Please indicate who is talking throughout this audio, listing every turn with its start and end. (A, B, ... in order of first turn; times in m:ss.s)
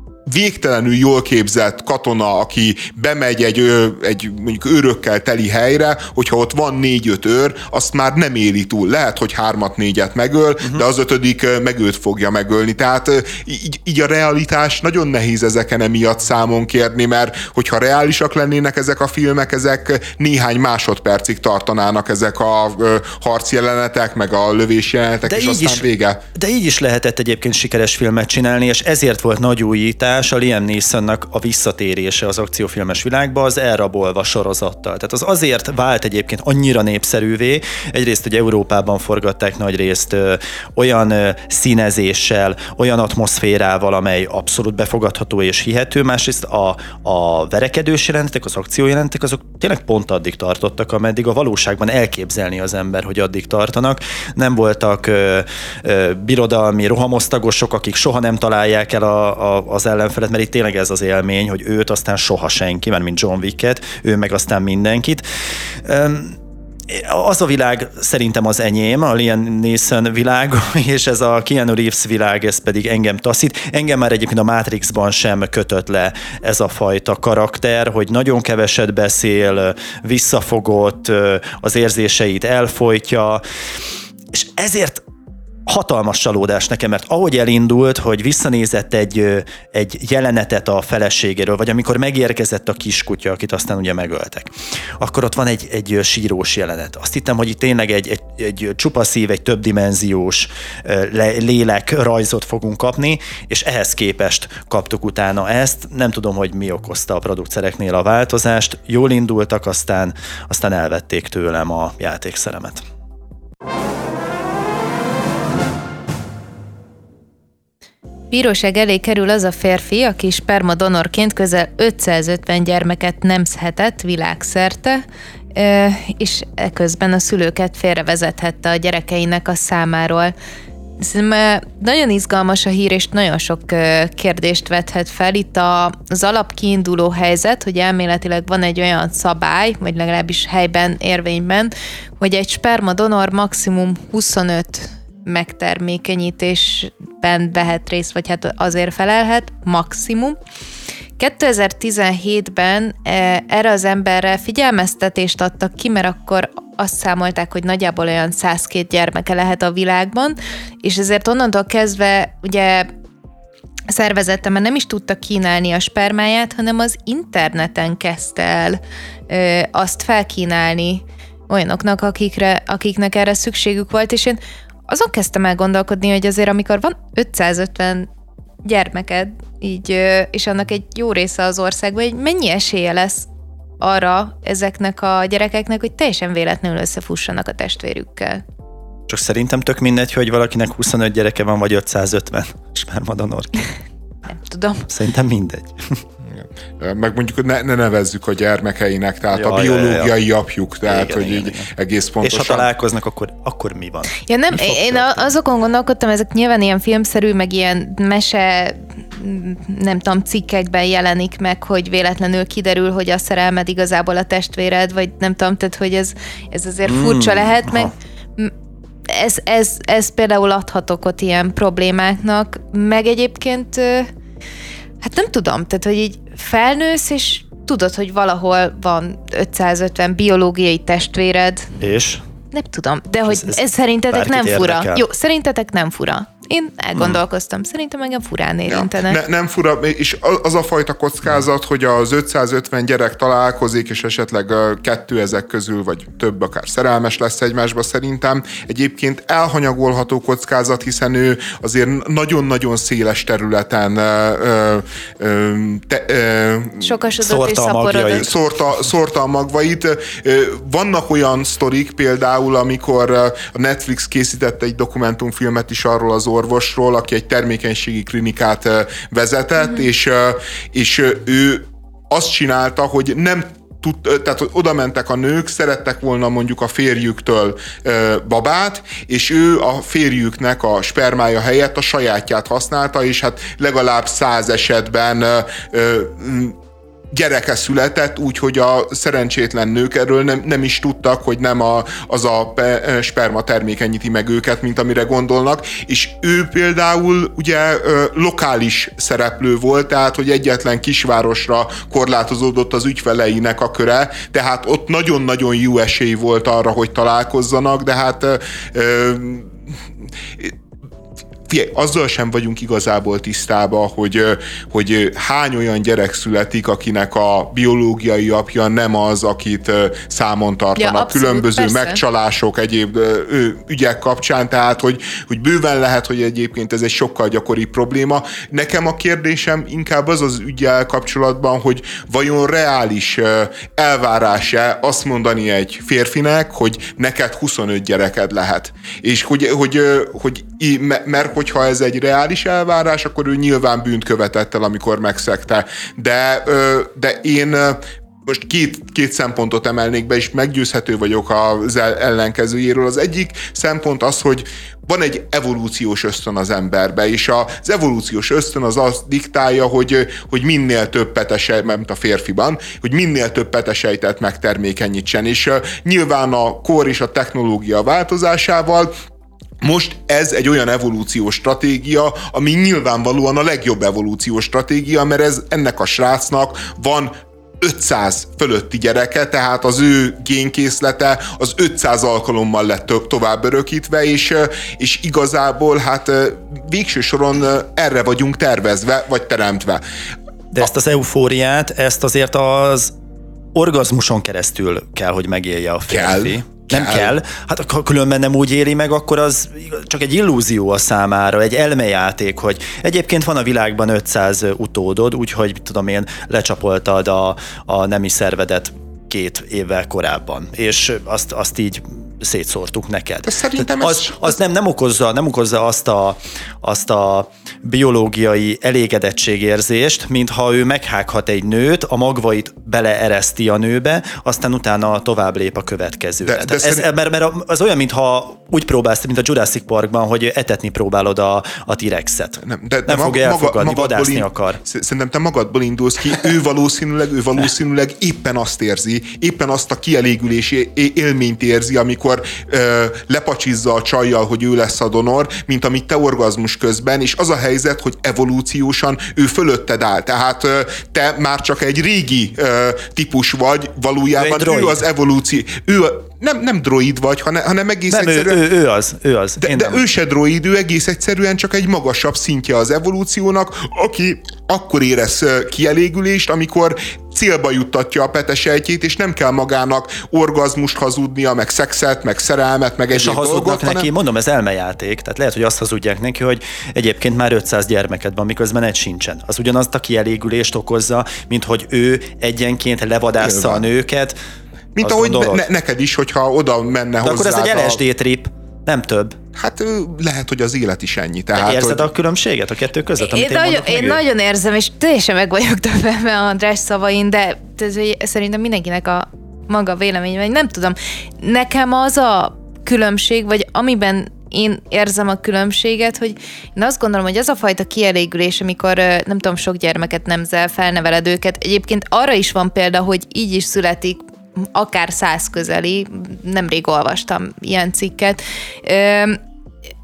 0:00.2-0:26.2 A
0:25.2-1:05.2 B
1:05.8-1:23.4 B
1:24.3-1:25.0 B
1:25.7-1:52.8 B
1:58.3-2:10.3 C
2:11.0-2:30.4 C
2:31.2-2:42.9 C
2:43.9-2:58.1 C
2:58.6-3:03.3 C
3:03.8-3:08.4 C
3:09.1-3:13.7 B
3:14.3-3:14.9 C
3:14.9-3:16.0 B
3:16.2-3:22.7 A
3:19.3-3:20.1 B
3:20.8-3:21.7 B
3:22.2-3:25.3 B
3:24.3-3:38.5 C
3:36.8-3:37.9 B
3:39.0-3:44.1 C
3:45.0-3:51.8 C
3:51.8-3:52.2 B
3:52.5-3:59.2 C
3:53.3-3:55.0 B
3:58.7-4:17.0 A
4:16.8-4:18.3 C
4:17.2-4:18.3 B
4:18.1-4:46.6 A
4:47.1-5:09.6 A
5:11.5-6:08.9 A
5:20.8-5:22.0 C
6:09.6-6:29.8 A
6:30.5-6:32.9 B
6:33.5-7:14.6 B
6:35.9-6:37.2 A
6:53.2-6:54.4 A
7:06.2-7:06.8 A
7:12.4-7:38.4 A
7:34.2-7:34.8 B
7:37.9-7:39.8 B
7:39.4-7:53.9 A
7:52.9-8:04.2 B
8:03.2-8:03.7 A
8:04.8-8:07.8 A
8:04.8-8:05.4 B
8:07.0-8:09.2 B
8:09.3-8:11.8 A
8:11.4-8:14.0 B
8:13.0-8:39.2 C